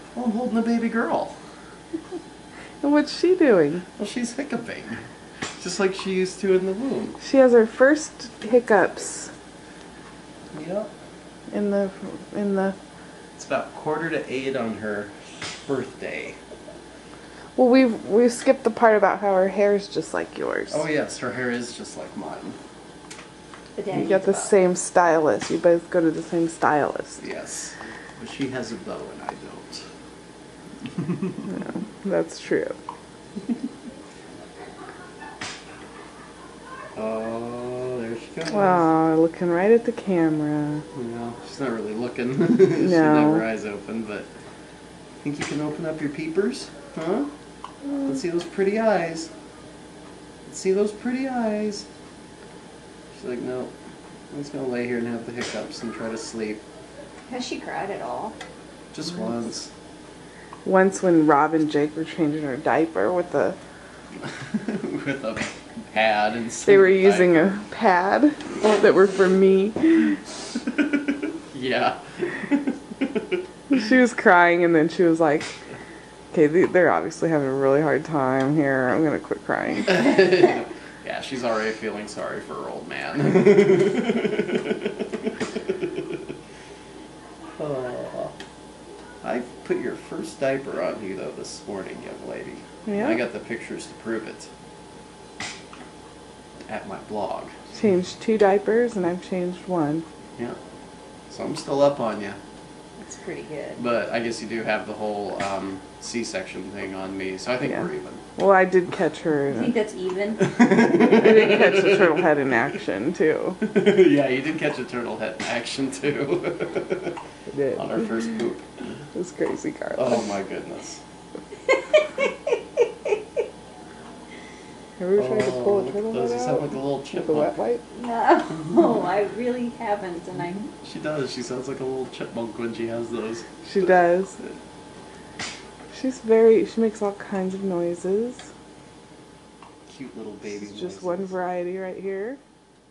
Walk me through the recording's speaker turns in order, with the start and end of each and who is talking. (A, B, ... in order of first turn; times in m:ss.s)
0:00.1-0:01.4 A
0:02.8-0:03.8 B
0:04.0-0:05.0 A
0:05.6-0:07.2 A
0:07.2-0:09.3 B
0:10.5-0:10.9 A
0:11.5-0:12.8 B
0:13.4-0:16.4 A
0:17.6-0:20.8 B
0:20.7-0:22.6 A
0:23.7-0:24.5 C
0:23.9-0:27.2 B
0:27.2-0:29.8 A
0:31.5-0:32.8 B
0:37.0-0:38.9 A
0:38.4-0:40.8 B
0:40.9-0:44.3 A
0:42.7-0:43.4 B
0:45.2-0:47.3 A
0:48.0-0:49.3 A
0:50.4-0:51.8 A
0:53.1-0:53.7 A
0:54.3-0:56.6 A
0:57.3-0:58.3 C
0:58.9-0:59.7 A
1:00.6-1:03.6 B
1:04.3-1:07.5 A
1:06.6-1:10.2 B
1:10.8-1:13.3 A
1:13.7-1:15.6 B
1:16.3-1:20.1 B
1:19.8-1:26.2 A
1:27.6-1:28.3 A
1:29.2-1:34.5 A
1:32.8-1:33.2 B
1:36.6-1:37.6 A
1:37.7-1:40.0 B
1:41.3-1:42.4 A
1:43.0-1:43.8 C
1:43.8-1:48.2 A
1:47.7-1:49.8 B
1:49.5-1:50.5 C
1:50.4-1:52.5 A
1:51.0-1:53.6 B
1:53.6-1:57.2 A
1:57.5-1:58.1 B
1:57.7-1:58.7 A
1:59.1-2:00.2 B
1:59.9-2:01.0 A
2:05.0-2:07.8 B
2:05.2-2:07.5 A
2:07.9-2:10.7 C
2:08.6-2:08.9 A
2:10.7-2:14.6 A
2:13.6-2:14.4 B
2:15.9-2:18.4 B
2:19.8-2:21.4 A
2:20.4-2:22.4 B